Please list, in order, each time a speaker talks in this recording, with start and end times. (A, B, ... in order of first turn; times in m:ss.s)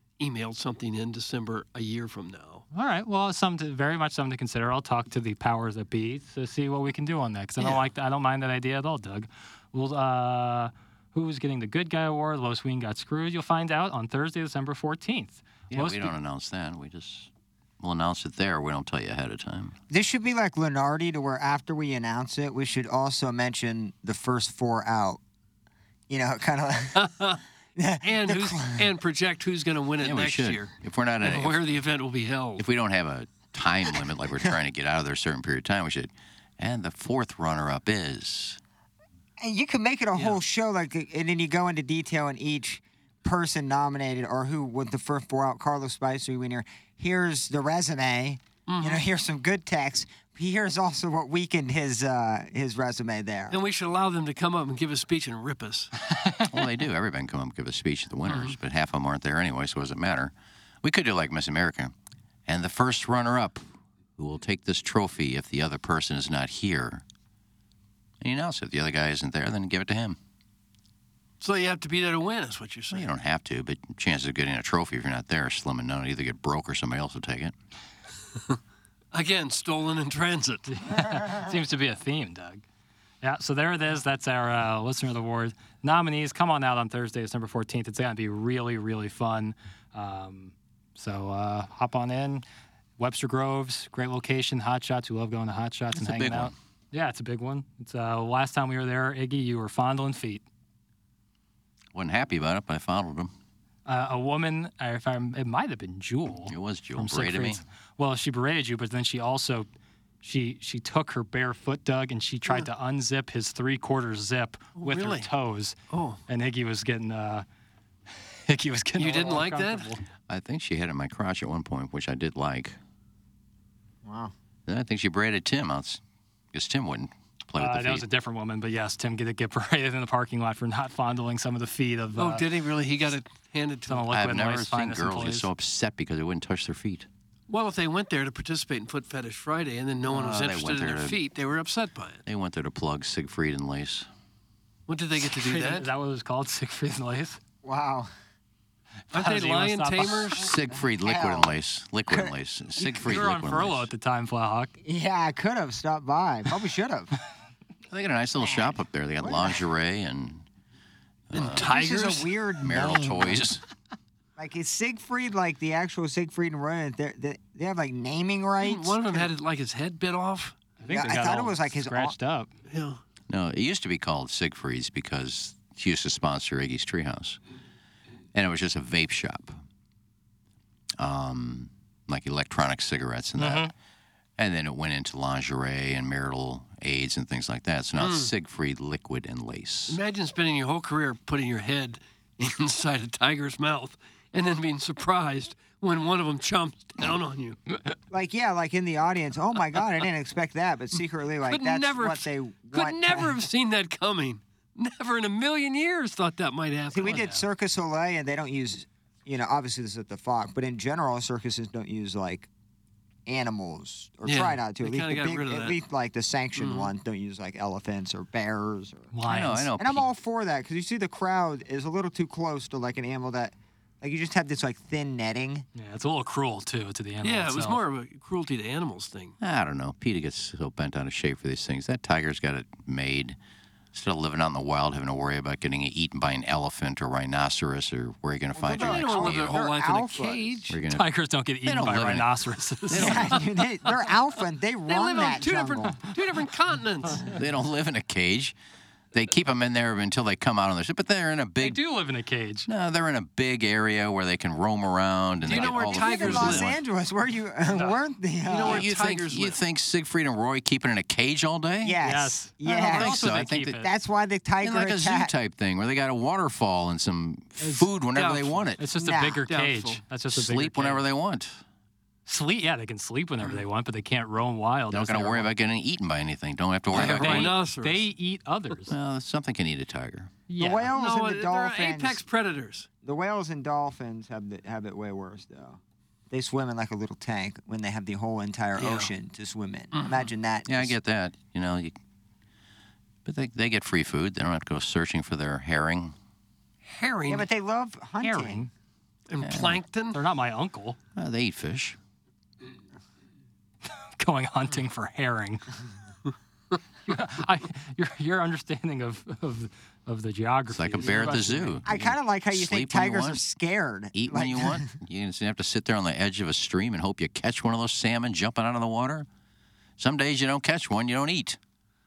0:00.2-0:02.6 A
0:02.7-0:16.1 B
0:15.7-0:17.3 C
0:17.8-0:19.7 C
0:19.9-0:25.2 D
0:26.1-0:27.0 D
0:26.9-0:27.4 A
0:27.8-0:28.8 D
0:28.0-0:32.6 A
0:30.0-0:31.6 C
0:32.6-0:38.6 C
0:39.4-0:53.6 D
0:48.7-0:49.0 A
0:53.5-0:55.9 A
0:56.1-0:56.5 B
0:56.5-1:00.3 C
0:58.2-0:58.6 A
1:00.8-1:01.9 C
1:02.5-1:03.6 C
1:04.2-1:07.0 C
1:08.2-1:10.2 C
1:11.4-1:13.1 A
1:12.9-1:17.5 C
1:19.1-1:20.8 A
1:20.7-1:22.6 B
1:23.2-1:32.4 B
1:33.0-1:40.4 B
1:35.9-1:36.5 C
1:41.9-1:43.3 C
1:43.8-1:49.7 B
1:46.5-1:47.6 C
1:50.2-1:55.8 B
1:54.8-1:55.3 A
1:55.9-1:56.2 A
1:56.3-1:57.4 B
1:58.5-2:00.0 B
1:59.0-1:59.9 A
2:00.3-2:02.8 C
2:04.0-2:04.3 D
2:04.7-2:06.0 C
2:06.5-2:08.0 C
2:07.6-2:12.4 B
2:12.2-2:14.0 A
2:13.9-2:15.5 B
2:14.1-2:17.1 C
2:17.5-2:22.2 A
2:20.1-2:21.2 C
2:22.2-2:24.1 C
2:24.9-2:25.9 A
2:25.2-2:27.4 B
2:27.6-2:28.1 D
2:29.1-2:30.4 B
2:29.1-2:30.5 A
2:30.4-2:33.9 C
2:30.7-2:31.6 D
2:32.1-2:32.3 D
2:32.8-2:34.7 B
2:34.8-2:37.1 D
2:37.9-2:40.4 C
2:39.2-2:39.6 D
2:41.3-2:41.8 C
2:41.3-2:42.3 A
2:41.4-2:43.5 D
2:42.6-2:43.6 C
2:44.4-2:49.3 D
2:48.6-2:50.6 A
2:50.8-2:52.5 B
2:50.9-2:52.2 D
2:52.7-2:53.0 A
2:53.3-2:57.4 C
2:58.3-2:59.6 C
3:01.0-3:03.7 C
3:03.4-3:03.7 B
3:04.4-3:10.0 C
3:08.0-3:08.3 A
3:09.9-3:17.6 A
3:18.1-3:23.4 D
3:21.5-3:27.2 A
3:26.9-3:32.5 D
3:27.0-3:27.4 B
3:33.2-3:39.1 D
3:34.2-3:35.8 A
3:36.6-3:36.9 A
3:39.1-3:39.7 B
3:39.2-3:40.0 C
3:39.8-3:45.6 D
3:45.8-3:47.8 B
3:47.2-3:49.3 A
3:49.4-3:53.4 C
3:53.9-3:59.6 C
3:58.6-4:00.7 D
3:58.6-4:00.7 A
4:00.7-4:01.1 C
4:00.9-4:03.4 B
4:01.6-4:02.3 C
4:02.9-4:03.3 C
4:02.9-4:06.0 D
4:04.9-4:07.3 A
4:07.3-4:08.5 C
4:09.1-4:11.8 C
4:11.6-4:12.7 B
4:12.7-4:16.8 C
4:15.4-4:16.7 A
4:15.5-4:18.9 D
4:17.7-4:18.0 B
4:18.5-4:19.6 A
4:18.6-4:22.0 C
4:21.8-4:25.3 D
4:22.0-4:23.9 B
4:22.9-4:23.8 C
4:24.6-4:28.8 C
4:27.6-4:27.9 B
4:28.1-4:28.7 A
4:28.8-4:31.0 B
4:29.0-4:29.4 D
4:29.5-4:30.0 A
4:30.3-4:31.6 C
4:32.3-4:35.5 B
4:34.9-4:37.6 C
4:36.9-4:38.1 A
4:36.9-4:38.9 B
4:38.9-4:40.4 C
4:40.5-4:40.9 B
4:40.6-4:42.2 D
4:40.9-4:42.9 A
4:43.0-4:50.9 D
4:48.8-4:49.1 A
4:49.9-4:50.3 A
4:50.7-4:51.9 C
4:53.2-4:56.1 C
4:56.8-4:57.5 A
4:57.3-4:58.6 D
4:58.2-4:58.7 B
4:59.3-5:00.2 A
4:59.4-4:59.8 C
5:00.1-5:01.0 B
5:01.2-5:02.0 C
5:03.9-5:05.6 B
5:07.1-5:11.8 B
5:10.7-5:13.4 C
5:11.8-5:14.9 D
5:14.1-5:19.2 C
5:20.0-5:21.6 C